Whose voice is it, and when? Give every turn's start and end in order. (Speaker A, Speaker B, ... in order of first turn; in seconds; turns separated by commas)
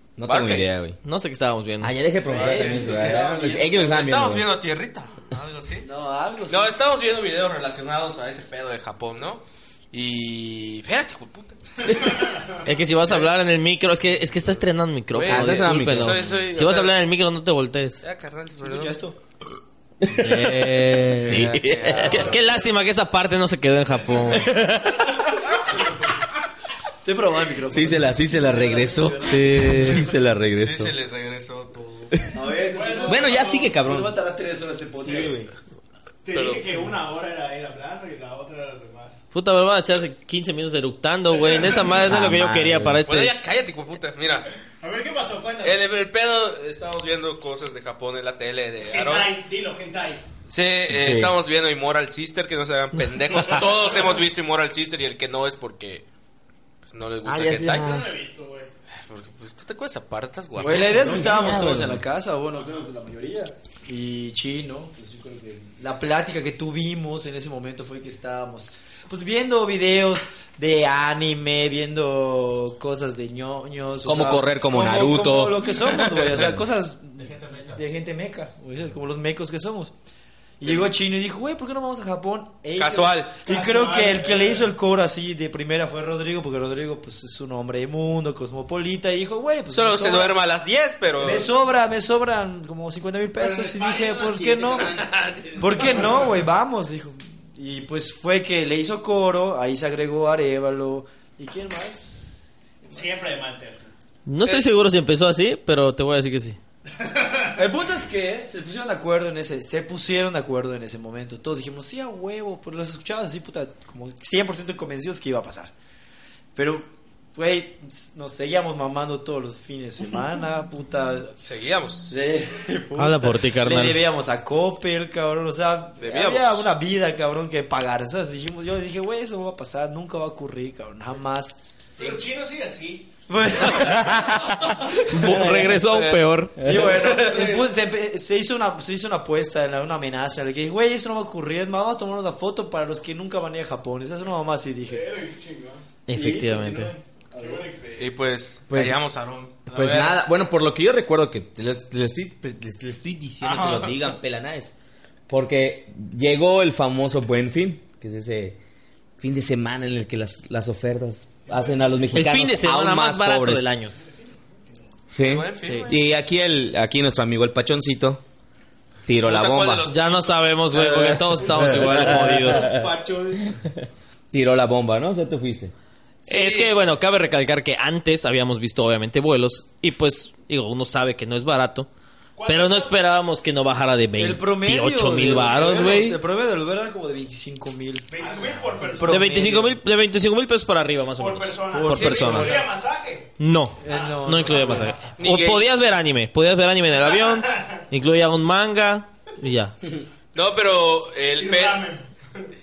Speaker A: 0.2-1.0, Speaker B: 0.2-0.7, Speaker C: 1.0-1.9, Speaker A: 1.8-4.5, Speaker B: 2.3-3.1, Speaker D: 2.3-4.1, Speaker B: 3.8-5.9, Speaker D: 5.8-6.7, Speaker B: 6.5-12.0, Speaker C: 11.8-18.0, Speaker B: 15.1-16.9, Speaker A: 15.2-16.4, Speaker B: 18.0-19.0, Speaker D: 18.6-19.2, Speaker C: 20.1-25.1, Speaker A: 21.2-22.4, Speaker B: 21.3-22.5, Speaker D: 27.0-29.9, Speaker A: 27.7-30.9, Speaker B: 30.6-32.2, Speaker D: 32.3-35.3, Speaker E: 32.7-33.7, Speaker A: 33.0-34.1, Speaker A: 35.0-35.5, Speaker E: 35.0-35.3, Speaker E: 36.2-39.2, Speaker B: 36.3-36.6, Speaker C: 39.3-43.3, Speaker E: 41.4-41.9, Speaker A: 41.9-43.0, Speaker B: 43.0-44.5, Speaker E: 44.8-45.8, Speaker B: 45.6-49.4, Speaker E: 48.8-50.2, Speaker B: 50.5-56.1, Speaker A: 50.9-51.4, Speaker B: 56.9-58.0, Speaker A: 57.2-58.1, Speaker E: 57.8-58.7, Speaker B: 59.0-61.6, Speaker D: 60.5-79.9, Speaker A: 60.7-62.0, Speaker A: 74.0-76.6, Speaker D: 80.6-90.4, Speaker B: 80.6-80.9, Speaker B: 82.8-83.4, Speaker E: 83.4-84.7, Speaker B: 89.7-91.5, Speaker D: 91.2-94.9, Speaker E: 93.3-95.0, Speaker B: 94.8-95.7, Speaker D: 95.6-103.0, Speaker E: 95.6-96.3, Speaker E: 102.9-103.9, Speaker C: 104.3-106.6, Speaker E: 107.1-107.5, Speaker D: 107.5-115.7, Speaker D: 116.5-121.3, Speaker B: 121.4-122.1, Speaker D: 122.1-131.5, Speaker C: 123.0-124.0, Speaker B: 126.0-126.7, Speaker E: 132.0-133.1, Speaker D: 133.3-134.5, Speaker E: 133.7-134.9, Speaker C: 135.1-136.5, Speaker A: 135.2-135.7, Speaker B: 135.7-136.8, Speaker D: 136.6-145.1, Speaker E: 136.8-137.7, Speaker E: 144.9-145.8, Speaker C: 146.1-146.9, Speaker D: 146.1-147.7, Speaker E: 147.4-148.2, Speaker B: 148.0-150.2, Speaker A: 148.7-149.0, Speaker A: 149.7-154.8, Speaker E: 153.4-154.0, Speaker A: 155.3-158.6, Speaker A: 159.2-163.7, Speaker C: 162.1-163.9, Speaker A: 165.1-168.2, Speaker B: 165.2-166.0, Speaker C: 165.6-165.9, Speaker A: 169.1-169.8, Speaker B: 169.2-170.9, Speaker C: 169.9-172.7, Speaker A: 170.8-172.9, Speaker E: 171.6-173.5, Speaker A: 174.3-175.7, Speaker B: 176.2-176.8, Speaker C: 176.2-181.9, Speaker E: 182.4-183.0, Speaker C: 182.4-186.2, Speaker D: 184.2-188.1, Speaker E: 188.1-189.3, Speaker D: 188.8-189.8, Speaker C: 189.0-192.7, Speaker E: 191.2-193.3, Speaker D: 191.7-192.7, Speaker B: 191.9-192.6, Speaker C: 193.4-199.8, Speaker D: 193.8-194.9, Speaker E: 193.9-194.9, Speaker B: 195.2-195.7, Speaker E: 197.2-197.7, Speaker B: 200.3-201.9, Speaker E: 201.4-202.0